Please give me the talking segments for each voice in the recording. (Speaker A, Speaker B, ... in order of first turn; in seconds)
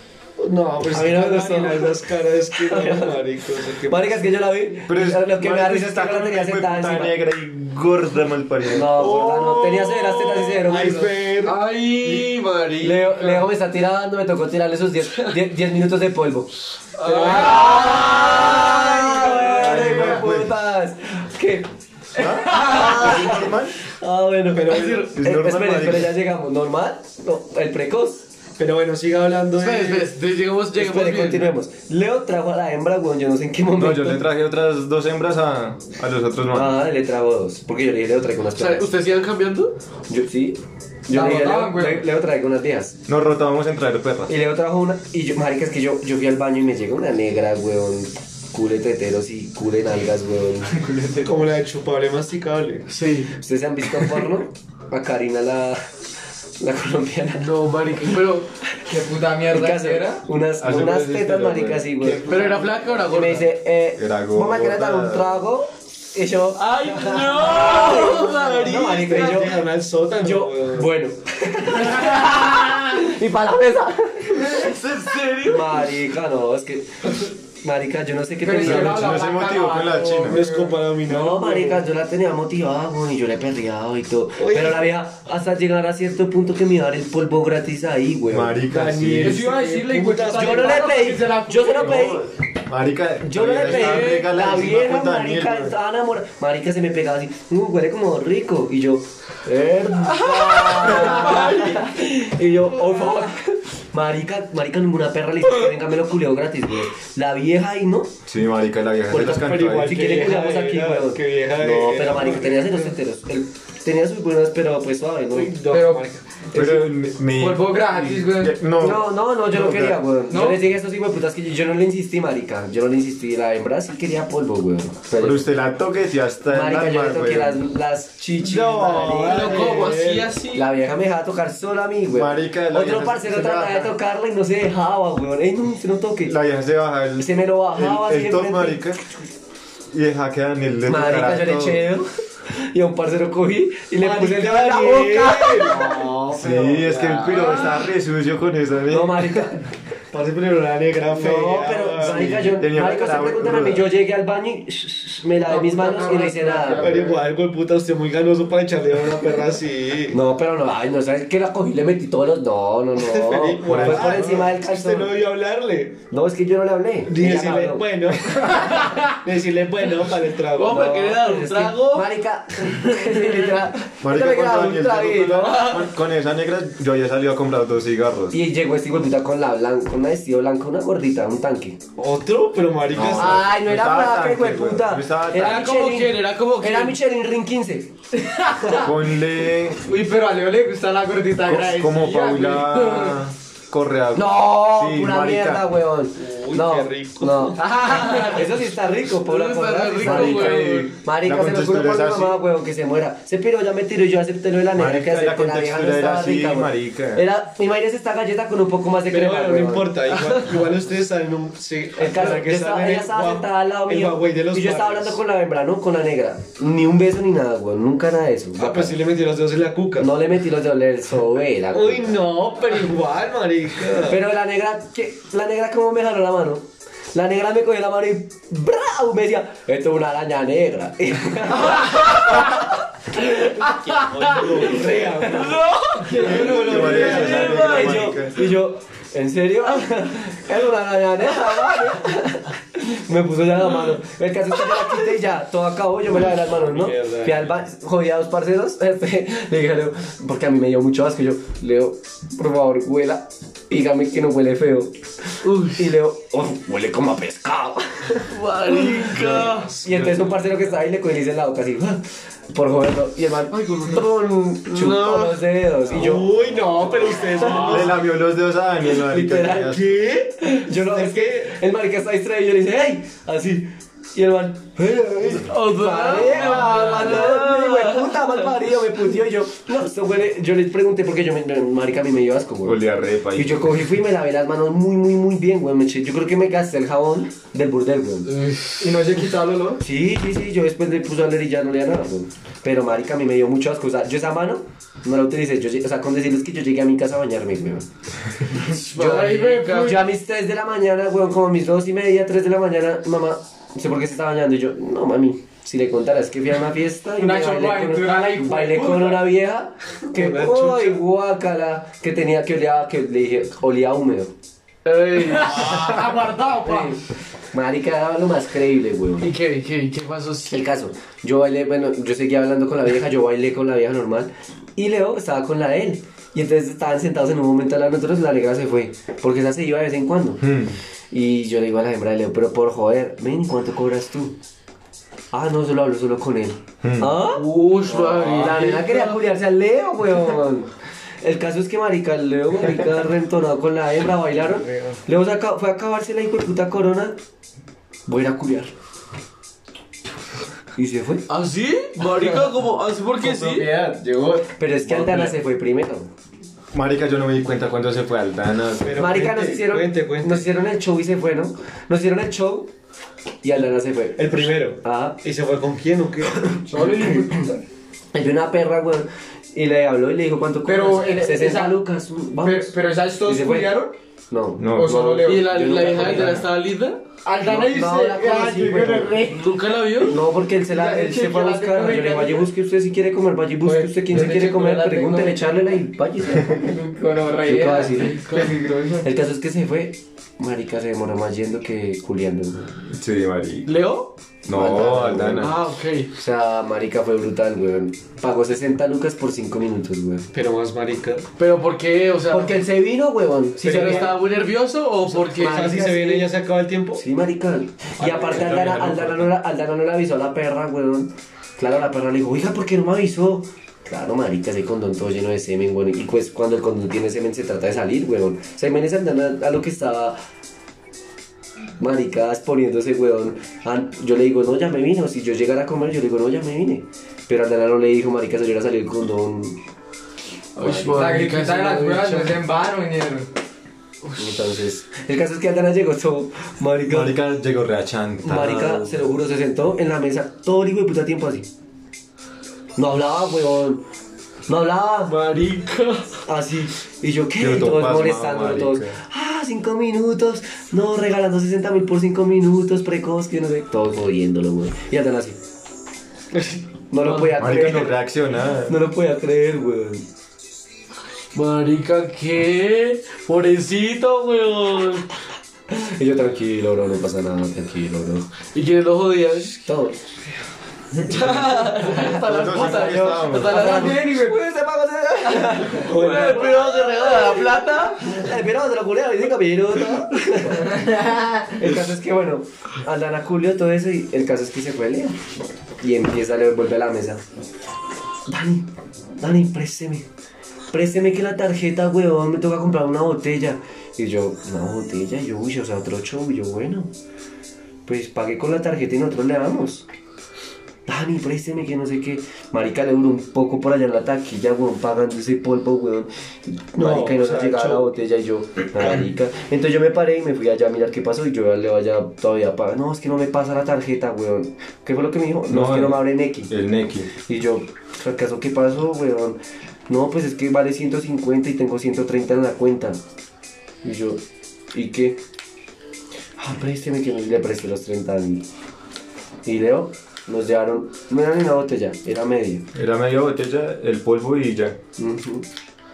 Speaker A: 0.4-4.4, 8.9-11.7, 24.5-25.1, 28.6-30.1, 51.1-52.9, 62.0-63.2, 67.8-70.9, 80.2-81.8, 84.4-84.8, 88.7-90.9, 109.1-112.9, 115.3-116.6, 128.4-130.3, 144.0-147.5, 150.1-152.5, 156.8-160.2, 163.0-166.0, 167.1-170.9, 182.0-183.5, 196.2-197.7, 209.1-215.2, 218.6-220.1, 221.7-224.2, 233.8-237.7, 246.5-247.5, 259.1-260.4, 265.9-268.0, 269.6-271.6, 310.1-311.0, 358.8-360.4, 364.2-366.6, 400.3-401.3, 403.6-404.1, 405.3-407.0, 408.0-408.5, 475.7-476.5, 506.8-507.9
Speaker B: 0.8-2.0, 2.5-3.2, 3.8-7.2, 8.7-11.2, 12.8-28.2, 30.7-34.2, 36.5-38.9, 40.1-43.0, 44.3-50.9, 53.4-55.9, 56.6-57.4, 59.5-62.3, 63.1-69.6, 70.2-74.6, 75.5-79.2, 81.0-88.6, 90.3-92.3, 93.2-108.2, 109.1-115.6, 118.8-125.5, 126.5-129.9, 130.5-136.4, 137.2-139.0, 140.9-146.0, 148.9-149.7, 151.1-156.9, 160.1-165.1, 166.1-167.9, 170.7-175.9, 178.3-181.8, 183.0-187.9, 194.1-210.4, 212.0-219.0, 220.0-222.2, 224.0-233.7, 234.3-235.6, 236.3-254.9, 255.8-258.3, 259.8-262.0, 262.5-266.3, 267.4-267.7, 268.9-269.8, 270.4-282.8, 283.3-288.3, 289.8-297.9, 299.7-314.3, 316.6-317.0, 317.5-319.3, 320.5-330.4, 331.1-334.3, 335.3-340.7, 341.2-347.1, 348.1-348.7, 350.8-351.2, 354.6-356.1, 359.0-362.7, 363.4-365.2, 368.1-376.5, 377.4-379.3, 380.0-386.7, 387.4-388.5, 389.0-392.9, 394.5-395.5, 396.1-400.3, 402.3-404.2, 405.4-406.3, 407.0-420.2, 421.8-429.6, 430.6-431.1, 434.2-437.2, 438.2-441.5, 442.8-443.8, 444.5-445.2, 446.2-455.4, 456.9-458.0, 458.7-460.0, 465.7-468.3, 469.6-470.1, 471.1-485.2, 485.8-487.2, 488.3-488.7, 489.2-490.0, 490.7-496.9, 497.9-499.9, 500.9-516.5, 517.3-519.4, 519.9-523.0, 523.8-524.2, 524.7-525.2, 526.4-528.4, 529.4-532.6, 535.0-535.4
Speaker C: 4.9-9.0, 19.5-20.5, 22.1-23.8, 25.0-26.2, 33.8-36.8, 43.1-44.3, 60.6-62.1, 64.0-65.3, 78.6-80.4, 88.3-89.4, 91.8-95.7, 108.3-110.0, 116.5-120.0, 125.2-127.6, 132.1-133.9, 136.2-139.0, 139.9-141.8, 146.3-149.5, 152.1-153.9, 163.6-164.4, 174.0-178.4, 182.9-185.6, 188.7-189.8, 191.4-195.6, 200.0-202.4, 204.8-207.2, 236.2-238.5, 267.5-270.0, 282.6-283.7, 330.4-330.8, 336.8-337.1, 356.7-359.1, 374.6-375.0, 392.9-393.7, 394.4-395.6, 408.0-409.3, 436.9-438.9, 447.4-449.0, 457.3-458.8, 472.2-473.6, 515.5-517.1, 532.7-534.8
Speaker D: 11.4-13.4, 17.0-19.8, 24.6-25.1, 29.6-31.5, 38.5-39.8, 52.9-53.3, 57.4-58.5, 62.3-63.5, 66.5-69.4, 74.3-76.0, 93.8-94.3, 100.4-101.7, 129.2-130.7, 170.5-172.1, 172.8-173.4, 185.3-187.0, 197.9-198.4, 199.2-200.9, 235.2-238.1, 255.4-255.9, 258.3-259.7, 263.5-264.1, 264.7-265.4, 275.3-278.3, 288.3-289.0, 298.5-300.0, 314.8-315.9, 319.2-320.6, 337.3-339.2, 351.3-353.7, 375.2-377.0, 379.3-380.2, 383.6-385.4, 388.0-388.5, 393.6-394.1, 395.4-396.1, 401.4-402.6, 403.6-405.8, 430.6-432.4, 434.0-434.4, 445.1-446.2, 456.3-457.3, 461.3-465.1, 468.5-469.6, 471.0-474.1, 475.6-478.2
Speaker E: 41.1-42.1, 58.9-60.2, 72.0-72.7, 78.4-80.8, 89.2-92.2, 115.7-116.1, 116.6-116.8, 117.4-118.6, 120.3-120.6, 155.4-157.2, 188.2-188.9, 189.8-193.2, 197.6-198.4, 236.1-237.2, 288.8-289.8, 298.9-300.1, 307.2-309.3, 315.2-317.0, 366.6-367.6, 370.6-371.8, 372.4-373.9, 374.7-376.3, 377.2-379.5, 380.7-382.5, 386.4-389.1, 430.9-433.3, 473.5-474.4, 480.6-481.5
Speaker F: 353.2-355.3